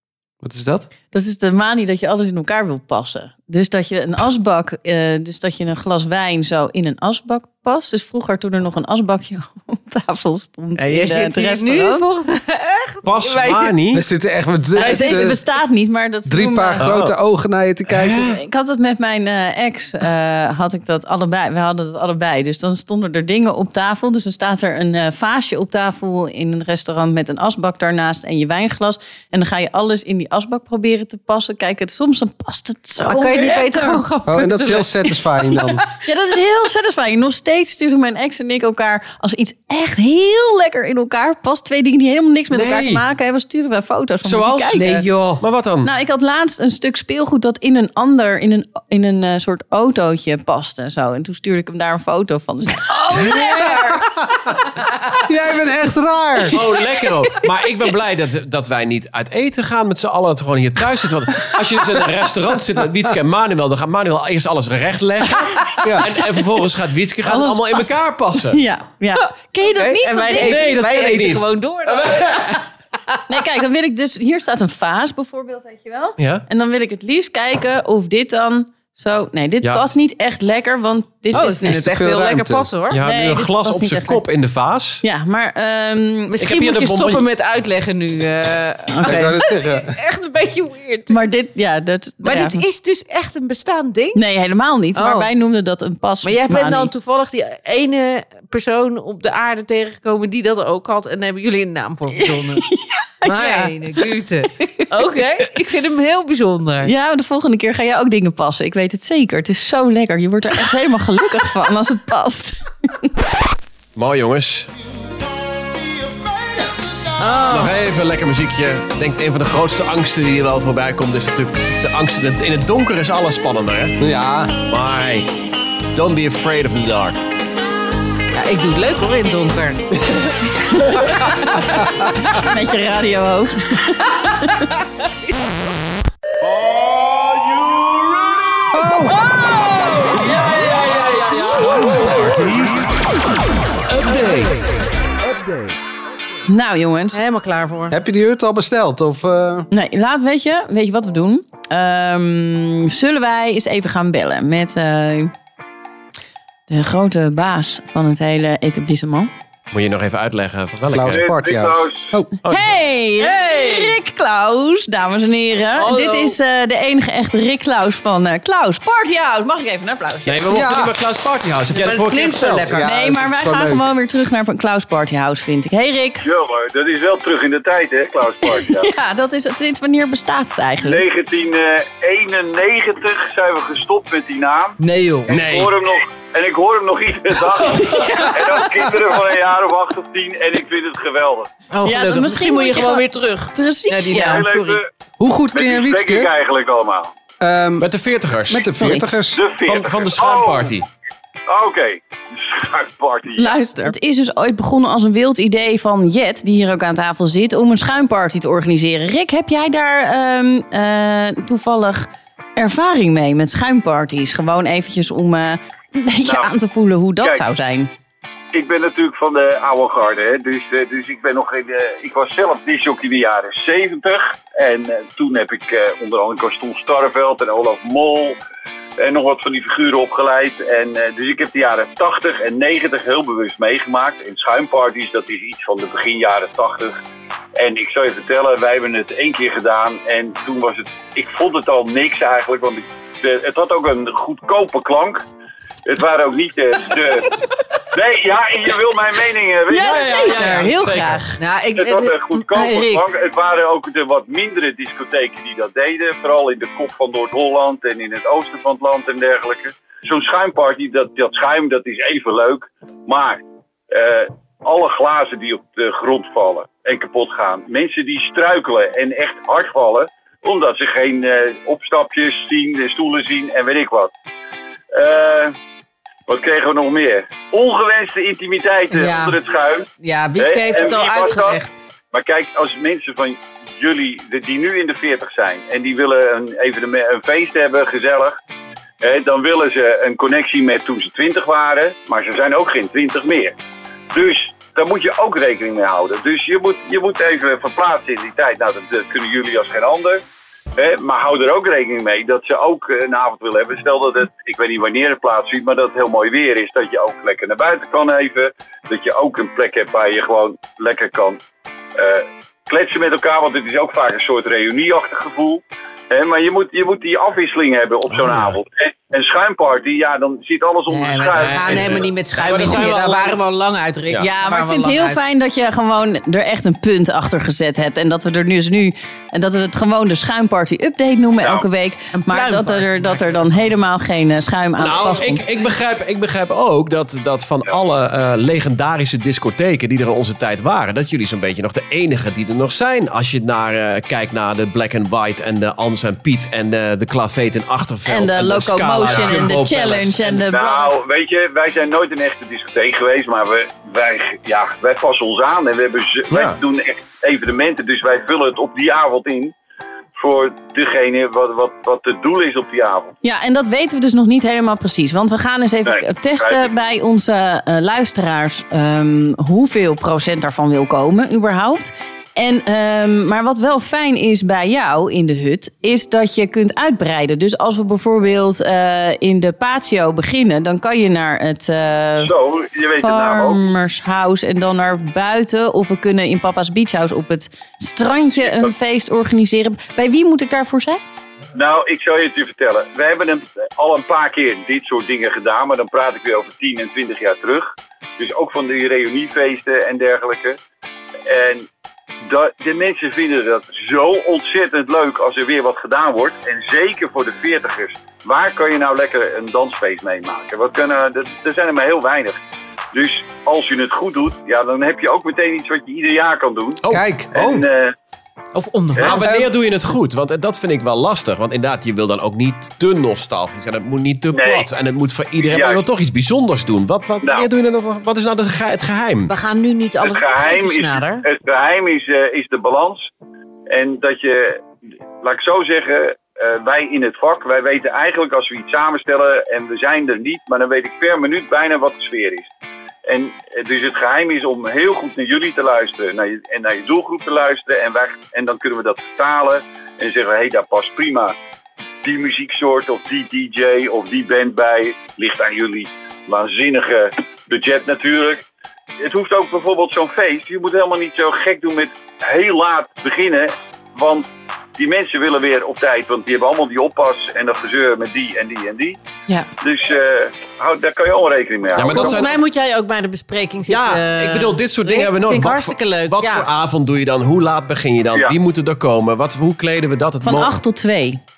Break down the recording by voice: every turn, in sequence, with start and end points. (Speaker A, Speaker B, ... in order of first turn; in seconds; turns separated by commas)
Speaker A: 0.4-0.9, Speaker B: 1.1-12.0, Speaker C: 10.8-13.8, Speaker D: 13.0-14.1, Speaker A: 13.9-15.4, Speaker B: 14.7-16.9, Speaker C: 14.8-15.3, Speaker A: 16.3-18.3, Speaker D: 16.8-17.1, Speaker D: 17.9-18.4, Speaker B: 18.2-34.0, Speaker C: 33.0-34.9, Speaker A: 34.3-35.9, Speaker B: 34.6-45.1, Speaker D: 42.5-43.0, Speaker D: 44.2-44.9, Speaker C: 44.7-45.4, Speaker D: 45.4-45.9, Speaker B: 45.8-54.1, Speaker D: 53.1-53.9, Speaker A: 54.0-54.5, Speaker A: 55.2-56.6, Speaker D: 56.5-68.6, Speaker B: 65.3-65.8, Speaker B: 67.2-70.7, Speaker C: 69.1-73.4, Speaker D: 70.4-72.6, Speaker B: 73.3-81.9, Speaker D: 76.2-76.4, Speaker C: 81.3-83.1, Speaker A: 81.3-82.7, Speaker D: 82.9-85.0, Speaker B: 83.0-84.2, Speaker B: 85.0-86.4, Speaker C: 86.3-91.2, Speaker D: 86.4-87.2, Speaker B: 88.9-89.4, Speaker A: 89.0-90.0, Speaker B: 91.1-92.6, Speaker C: 92.2-94.2, Speaker B: 94.1-96.9, Speaker C: 94.9-95.3, Speaker C: 96.2-102.7, Speaker B: 102.2-104.1, Speaker C: 103.2-106.9, Speaker B: 104.6-104.8, Speaker B: 106.8-113.1, Speaker D: 114.0-114.7, Speaker C: 117.2-117.8, Speaker D: 117.5-124.0, Speaker A: 124.0-124.5, Speaker D: 124.6-125.3, Speaker D: 125.9-127.2, Speaker C: 128.3-129.9, Speaker D: 130.8-131.0, Speaker C: 131.0-132.1, Speaker A: 131.7-132.1, Speaker B: 132.3-134.7, Speaker C: 134.2-135.5, Speaker D: 136.8-138.8, Speaker A: 138.7-139.2, Speaker C: 139.2-140.4, Speaker D: 140.1-143.0, Speaker D: 143.8-144.8, Speaker B: 146.5-147.2, Speaker C: 147.1-148.0, Speaker A: 147.9-149.7, Speaker B: 149.7-155.3, Speaker B: 156.7-159.3, Speaker D: 159.7-161.3, Speaker A: 160.9-162.3, Speaker E: 161.1-162.1, Speaker D: 162.4-162.8, Speaker B: 162.4-170.5, Speaker C: 163.2-164.0, Speaker C: 165.8-166.4, Speaker D: 170.2-172.7, Speaker A: 170.5-170.9, Speaker C: 171.7-173.0, Speaker A: 172.6-173.8, Speaker B: 172.8-176.2, Speaker E: 176.2-178.9, Speaker B: 178.4-181.0, Speaker E: 180.8-184.8, Speaker C: 184.8-185.3, Speaker E: 185.3-191.5, Speaker D: 185.3-185.7, Speaker B: 187.8-188.6, Speaker C: 191.7-194.8, Speaker B: 191.8-194.4, Speaker E: 194.2-194.9, Speaker A: 195.2-196.3, Speaker E: 195.5-197.1, Speaker A: 197.4-197.9, Speaker D: 197.8-198.7, Speaker A: 198.5-199.4, Speaker B: 198.8-199.1, Speaker E: 199.3-200.7, Speaker D: 199.6-200.9, Speaker E: 201.5-203.6, Speaker B: 203.4-217.9, Speaker E: 216.2-216.5, Speaker E: 218.5-228.4, Speaker E: 229.0-236.9, Speaker E: 237.6-245.2, Speaker E: 245.8-247.3, Speaker E: 247.9-250.4, Speaker B: 249.7-251.3, Speaker D: 249.8-251.2, Speaker C: 251.4-253.0, Speaker E: 251.8-274.1, Speaker E: 274.9-275.5, Speaker E: 276.3-281.6, Speaker C: 278.9-279.4, Speaker C: 280.0-281.7, Speaker E: 282.1-288.4, Speaker E: 289.0-293.6, Speaker E: 294.1-300.2, Speaker E: 300.8-311.4, Speaker E: 311.9-322.9, Speaker D: 318.1-318.5, Speaker C: 320.9-325.2, Speaker D: 321.4-323.4, Speaker B: 324.2-335.5, Speaker E: 331.4-331.7, Speaker C: 332.1-333.7, Speaker D: 334.8-350.3, Speaker B: 348.1-350.9, Speaker E: 349.1-349.4, Speaker E: 350.2-359.5, Speaker D: 356.3-356.6, Speaker E: 360.2-363.1, Speaker B: 363.2-382.3, Speaker E: 365.9-366.7, Speaker E: 382.2-383.7, Speaker B: 383.0-391.0, Speaker E: 391.5-400.6, Speaker E: 401.2-401.7, Speaker E: 402.2-412.4, Speaker E: 412.9-416.8, Speaker A: 416.9-417.6, Speaker E: 417.3-417.9, Speaker C: 418.5-419.3, Speaker D: 419.0-429.3, Speaker A: 419.2-419.5, Speaker E: 424.3-424.7, Speaker E: 425.4-425.8, Speaker E: 427.2-427.5, Speaker C: 429.3-431.2, Speaker E: 430.0-433.1, Speaker E: 433.7-434.6, Speaker E: 435.2-442.5, Speaker E: 443.1-451.4, Speaker E: 452.0-458.4, Speaker E: 459.0-469.0, Speaker E: 469.6-472.2, Speaker D: 471.7-472.3, Speaker C: 471.8-476.5, Speaker D: 473.7-480.5, Speaker B: 480.2-481.2